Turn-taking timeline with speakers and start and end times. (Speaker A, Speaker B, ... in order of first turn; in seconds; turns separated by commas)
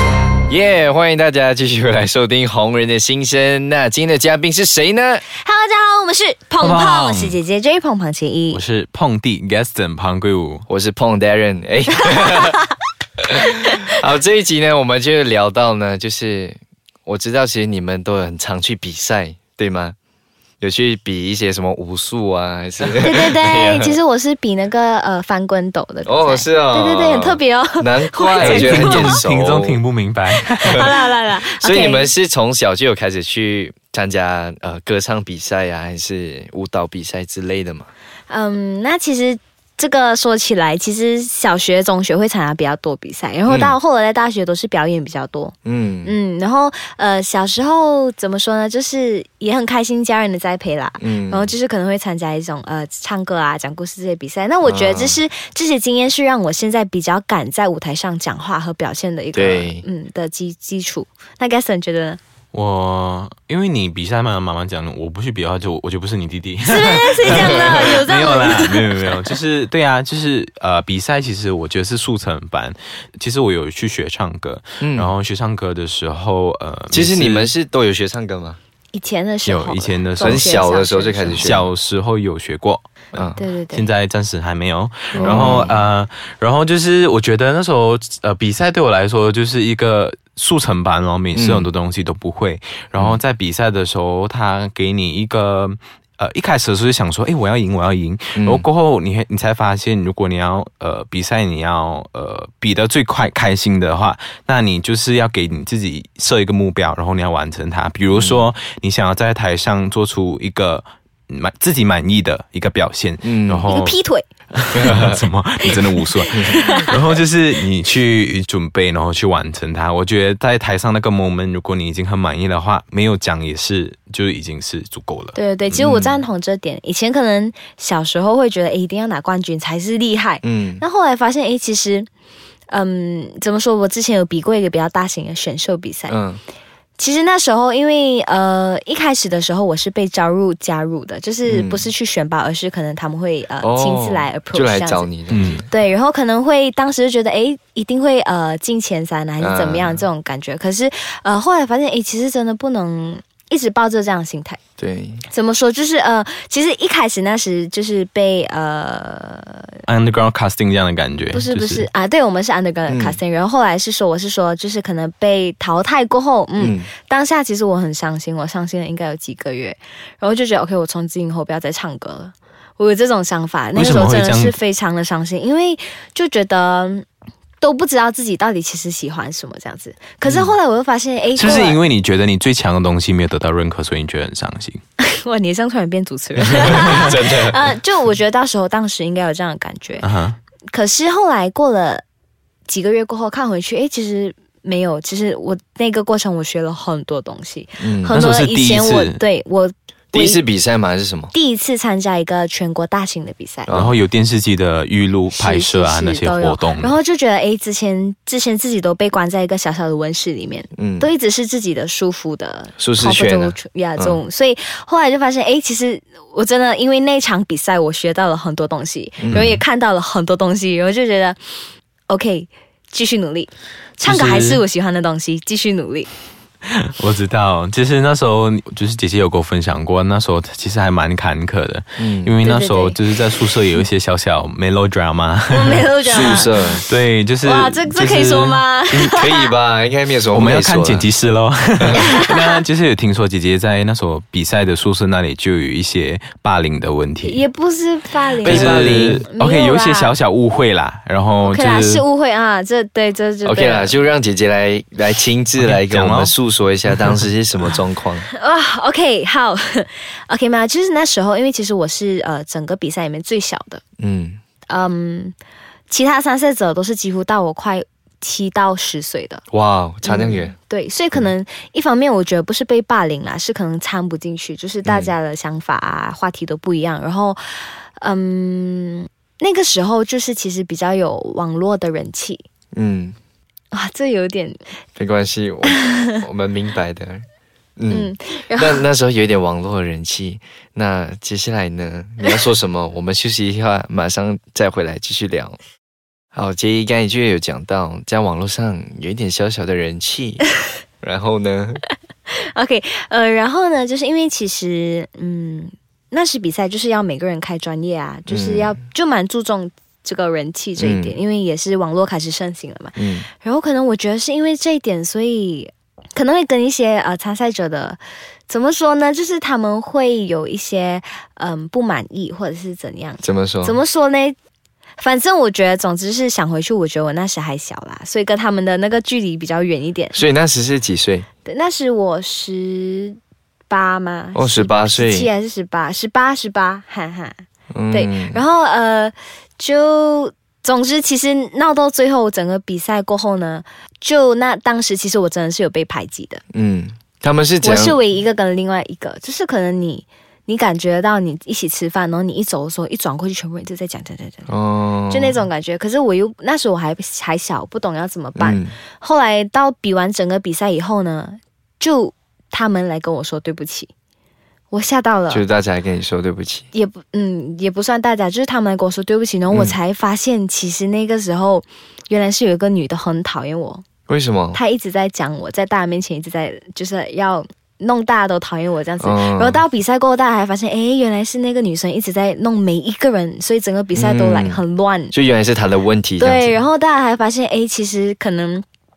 Speaker A: 0.5-5.2, Speaker B: 5.4-8.6, Speaker C: 6.6-7.4, Speaker C: 8.5-10.6, Speaker A: 10.7-12.6, Speaker A: 13.4-19.9, Speaker A: 20.6-24.0, Speaker B: 23.0-29.2, Speaker A: 26.1-29.8, Speaker C: 28.4-30.9, Speaker B: 30.6-32.1, Speaker A: 31.6-37.9, Speaker B: 38.3-45.5, Speaker A: 43.5-43.8, Speaker A: 45.6-46.1, Speaker B: 46.0-62.2, Speaker A: 51.0-51.5, Speaker A: 54.6-55.2, Speaker A: 59.3-59.8, Speaker C: 62.5-77.5, Speaker B: 66.6-69.1, Speaker A: 67.2-67.5, Speaker A: 74.8-75.1, Speaker A: 76.9-78.6, Speaker B: 78.9-81.5, Speaker C: 79.5-80.6, Speaker A: 80.2-81.7, Speaker C: 81.3-114.0, Speaker A: 83.1-83.4, Speaker B: 83.4-83.9, Speaker A: 85.2-85.7, Speaker A: 91.3-91.7, Speaker A: 98.3-98.6, Speaker A: 108.1-108.4, Speaker A: 113.2-113.7, Speaker B: 113.7-114.2, Speaker C: 114.5-125.9, Speaker A: 114.8-115.2, Speaker B: 116.0-116.9, Speaker B: 125.3-132.1, Speaker A: 125.8-126.2, Speaker A: 130.4-130.8, Speaker B: 132.7-136.2, Speaker A: 136.1-136.4, Speaker B: 137.0-145.1, Speaker A: 141.5-141.8, Speaker A: 143.6-145.7, Speaker C: 145.3-145.6, Speaker B: 145.7-154.6, Speaker A: 149.4-150.0, Speaker A: 154.8-155.2, Speaker B: 155.3-159.8, Speaker C: 159.9-161.9, Speaker B: 161.3-177.1, Speaker A: 162.9-163.2, Speaker A: 166.6-166.9, Speaker C: 173.7-174.6, Speaker B: 177.6-181.8, Speaker A: 180.2-180.5, Speaker C: 181.3-184.8, Speaker B: 185.0-190.1, Speaker A: 186.6-187.6, Speaker C: 190.0-190.4, Speaker B: 190.7-192.0, Speaker B: 192.7-200.4, Speaker A: 197.8-198.1, Speaker C: 198.1-199.2, Speaker A: 200.1-201.3, Speaker B: 201.3-203.8, Speaker A: 203.7-203.9, Speaker C: 203.7-206.9, Speaker B: 205.3-221.4, Speaker A: 210.8-211.1, Speaker A: 212.8-214.2, Speaker A: 219.2-219.6, Speaker B: 222.1-226.1, Speaker C: 224.0-224.6, Speaker C: 226.7-238.6, Speaker A: 232.0-232.3, Speaker B: 232.4-233.0, Speaker B: 235.5-236.5, Speaker A: 236.1-236.8, Speaker B: 237.4-239.5, Speaker A: 238.9-241.1, Speaker C: 240.3-247.4, Speaker B: 241.9-242.5, Speaker B: 247.2-250.2, Speaker A: 248.4-249.2, Speaker C: 248.4-252.0, Speaker B: 251.4-254.0, Speaker A: 253.4-258.2, Speaker C: 255.6-256.3, Speaker C: 256.9-257.2, Speaker B: 258.3-263.8, Speaker A: 264.0-264.4, Speaker B: 264.7-265.3, Speaker B: 265.9-269.4, Speaker A: 269.5-270.5, Speaker B: 270.0-277.4, Speaker A: 274.9-275.1, Speaker B: 278.0-282.4, Speaker A: 282.7-283.1, Speaker B: 283.7-284.6, Speaker A: 285.0-287.2, Speaker B: 285.8-286.2, Speaker A: 287.8-295.6, Speaker B: 287.9-288.8, Speaker A: 296.3-300.4, Speaker A: 301.0-301.8, Speaker B: 302.3-324.4, Speaker A: 308.3-308.8, Speaker A: 310.8-311.1, Speaker A: 313.0-313.2, Speaker A: 323.2-323.8, Speaker B: 325.0-330.2, Speaker A: 330.1-331.2, Speaker B: 331.4-333.2, Speaker B: 333.7-346.4, Speaker A: 334.3-335.3, Speaker A: 337.7-338.4, Speaker A: 346.5-348.0, Speaker B: 347.6-354.4, Speaker A: 354.5-355.4, Speaker B: 355.1-363.9, Speaker A: 358.4-358.7, Speaker B: 364.7-365.4, Speaker A: 365.3-366.6, Speaker B: 366.7-373.8, Speaker A: 369.5-369.8, Speaker A: 374.1-374.6, Speaker B: 374.5-385.1, Speaker A: 379.0-379.6, Speaker A: 383.9-384.6, Speaker A: 385.1-386.5, Speaker B: 386.2-388.6